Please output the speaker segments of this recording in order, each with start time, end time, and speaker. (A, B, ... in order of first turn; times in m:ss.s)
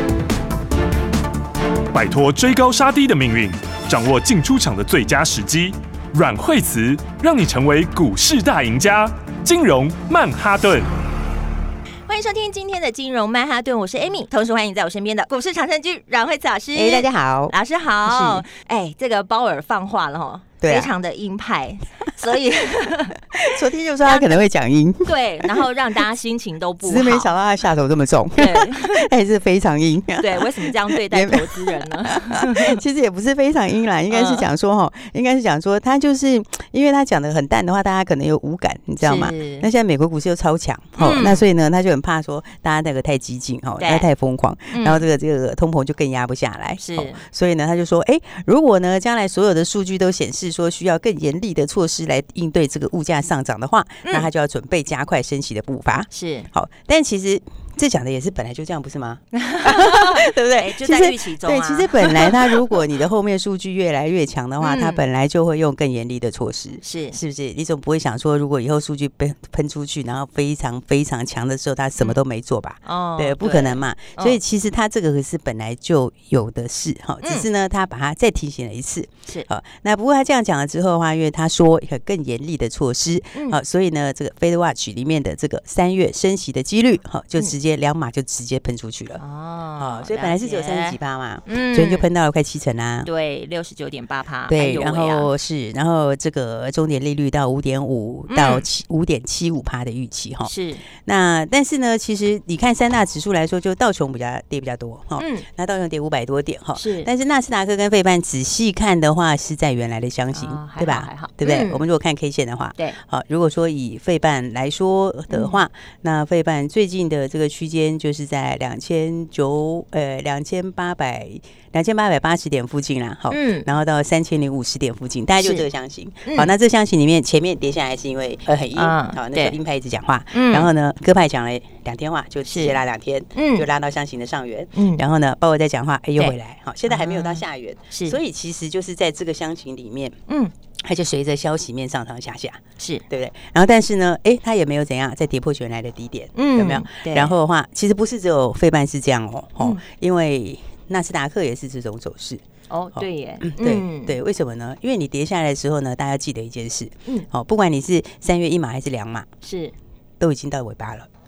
0:01.9-0:10.9 A
0:12.1-0:23.2 B
0:16.8-0:17.6 C
0:18.1-0:18.4 C
0:20.6-0:20.9 C
0:23.3-0:25.7 C
0:24.0-0:24.4 B
0:25.0-0:27.3 B
0:26.8-1:29.2 C
0:28.4-0:29.0 B
0:30.2-0:32.8 B
0:34.1-0:34.5 B
0:39.0-0:39.6 B
0:41.0-0:41.4 B
0:43.8-0:44.1 B
0:44.7-0:45.0 B
0:46.8-0:47.2 B
0:56.1-0:56.5 B
0:59.5-1:02.5 B
1:04.6-1:05.0 B
1:06.8-1:07.2 B
1:12.9-1:14.4 B
1:29.2-1:31.0 B
1:29.8-1:33.1 C
1:31.5-1:32.1 B
1:33.1-1:35.3 B
1:34.5-2:20.2 C
1:38.3-1:38.6 B
1:40.4-1:40.8 B
1:45.2-1:45.4 B
1:46.8-1:47.1 B
1:50.3-1:51.8 B
2:03.3-2:03.7 B
2:05.4-2:05.7 B
2:08.7-2:09.6 B
2:10.3-2:10.7 B
2:12.5-2:12.8 B
2:13.4-2:13.7 B
2:14.8-2:15.0 B
2:16.9-2:18.2 B
2:20.8-2:32.4 C
2:26.4-2:27.3 B
2:32.7-2:34.2 B
2:32.9-2:39.3 C
2:39.4-2:39.7 B
2:40.2-2:41.1 C